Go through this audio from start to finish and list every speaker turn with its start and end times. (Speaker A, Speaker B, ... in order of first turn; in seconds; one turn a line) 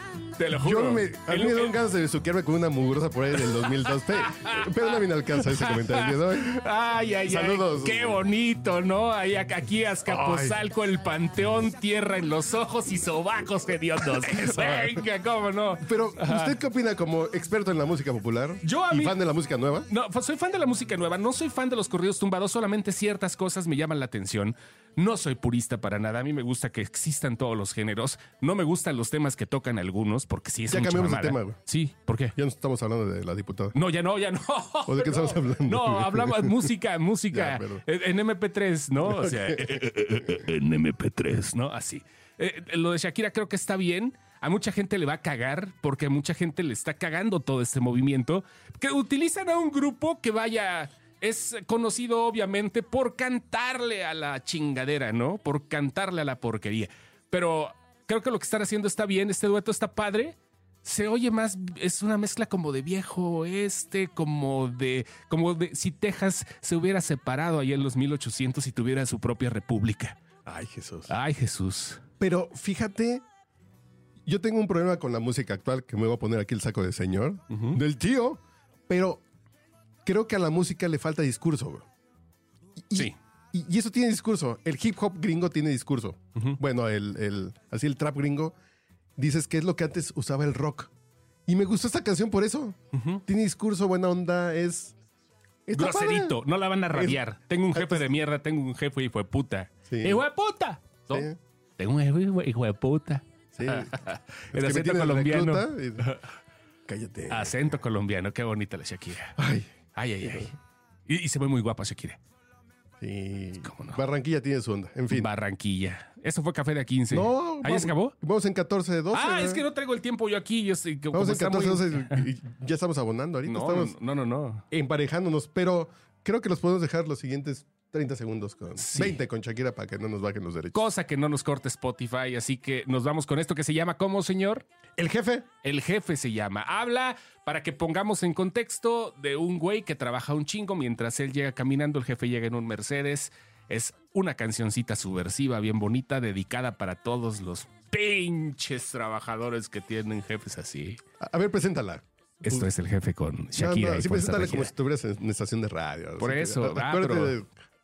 Speaker A: 0.4-1.8
Speaker B: 0.6-6.6
Speaker A: 3.6-16.6
Speaker B: 7.3-8.2
Speaker B: 10.1-10.6
Speaker B: 14.5-14.9
Speaker B: 15.8-19.9
Speaker A: 18.6-19.2
Speaker A: 19.9-32.4
Speaker B: 30.7-31.6
Speaker B: 32.4-33.8
Speaker A: 33.7-70.2
Speaker B: 34.9-36.7
Speaker B: 37.3-37.8
Speaker B: 39.0-39.8
Speaker B: 70.5-71.1
Speaker A: 71.1-72.0
Speaker B: 72.2-73.2
Speaker B: 74.2-79.2
Speaker A: 77.5-77.8
Speaker B: 80.0-81.8
Speaker B: 82.9-88.5
Speaker B: 89.2-90.9
Speaker B: 91.5-94.9
Speaker A: 92.9-93.2
Speaker B: 95.7-96.4
Speaker A: 95.8-106.3
Speaker B: 97.8-98.1
Speaker B: 99.9-100.2
Speaker B: 101.1-101.4
Speaker B: 103.5-104.0
Speaker B: 104.5-106.1
Speaker B: 106.9-107.8
Speaker A: 107.3-109.4
Speaker B: 109.4-109.7
Speaker A: 110.0-110.6
Speaker A: 111.1-112.2
Speaker B: 113.0-115.3
Speaker A: 113.6-114.0
Speaker A: 115.1-118.2
Speaker B: 117.1-119.7
Speaker A: 119.1-122.2
Speaker B: 121.1-124.0
Speaker A: 123.5-124.6
Speaker B: 124.7-130.9
Speaker A: 128.8-129.2
Speaker A: 130.7-134.7
Speaker B: 135.0-135.5
Speaker A: 135.6-151.0
Speaker B: 151.2-152.7
Speaker A: 152.4-154.7
Speaker B: 153.6-157.5
Speaker A: 156.2-157.4